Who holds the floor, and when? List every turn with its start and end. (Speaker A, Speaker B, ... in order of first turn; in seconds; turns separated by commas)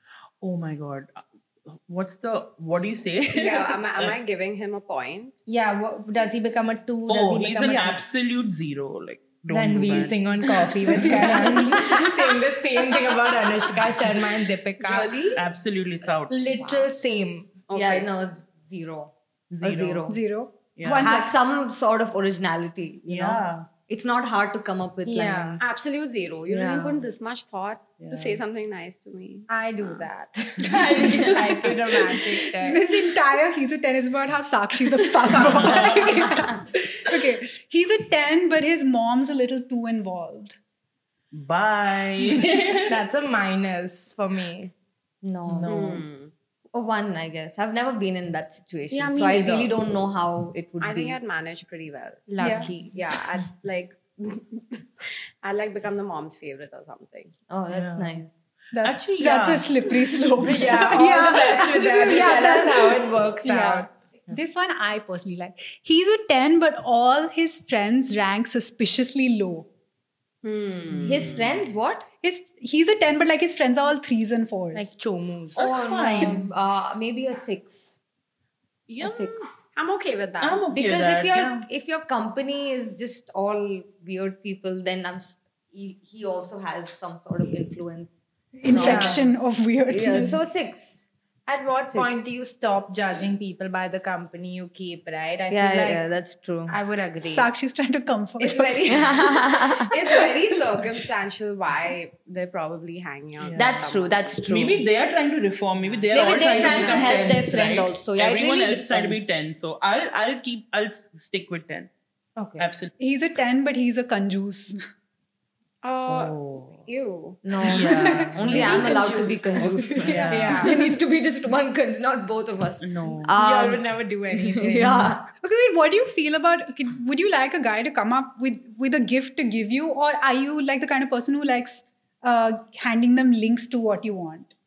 Speaker A: 0.4-4.1, Speaker B: 3.3-5.3, Speaker C: 5.5-8.0, Speaker A: 7.1-11.6, Speaker C: 9.5-15.3, Speaker D: 11.3-12.0, Speaker B: 14.8-15.4, Speaker A: 15.3-16.6, Speaker C: 16.3-17.6, Speaker B: 17.7-18.1, Speaker E: 17.7-20.2, Speaker A: 19.5-20.2, Speaker D: 20.1-21.3, Speaker A: 20.8-21.1, Speaker E: 20.9-25.7, Speaker A: 23.1-23.7, Speaker C: 25.1-25.6, Speaker B: 25.6-30.1, Speaker E: 26.5-27.1, Speaker A: 28.0-28.4, Speaker C: 29.5-32.9, Speaker D: 32.6-40.6, Speaker A: 35.4-36.3, Speaker A: 41.3-43.0, Speaker C: 42.9-44.7, Speaker E: 45.2-46.0, Speaker A: 45.5-46.0, Speaker B: 45.7-46.3, Speaker E: 46.7-51.2, Speaker B: 48.9-49.8, Speaker B: 50.8-57.3, Speaker C: 52.3-52.9, Speaker D: 52.4-52.7, Speaker E: 57.5-58.3, Speaker A: 57.7-58.2, Speaker D: 58.7-69.7, Speaker A: 58.8-60.4, Speaker C: 60.4-63.9, Speaker B: 70.4-71.4, Speaker E: 71.0-72.1, Speaker D: 72.2-74.9, Speaker C: 74.7-75.7, Speaker A: 75.5-76.5, Speaker E: 75.5-78.0, Speaker A: 78.9-79.3, Speaker E: 79.0-79.6, Speaker B: 79.6-80.7, Speaker A: 80.4-81.7, Speaker E: 80.7-89.3, Speaker D: 88.6-90.4, Speaker C: 88.7-89.3, Speaker E: 89.9-91.0, Speaker C: 91.5-96.0, Speaker E: 91.9-92.2, Speaker E: 95.5-96.7, Speaker C: 96.7-97.5, Speaker D: 97.3-99.2, Speaker B: 98.4-104.7, Speaker E: 98.9-100.0, Speaker A: 103.4-103.9, Speaker E: 103.5-104.8, Speaker A: 104.4-111.9, Speaker E: 106.1-109.4, Speaker C: 106.1-107.3, Speaker B: 106.2-106.9, Speaker C: 112.4-112.6, Speaker A: 112.6-112.9, Speaker D: 113.0-114.8, Speaker B: 115.8-120.3, Speaker A: 116.1-116.8, Speaker E: 117.4-125.3, Speaker A: 117.6-119.1, Speaker A: 120.0-120.7, Speaker C: 120.3-120.8, Speaker A: 122.8-123.4, Speaker C: 123.4-125.2, Speaker D: 125.4-134.5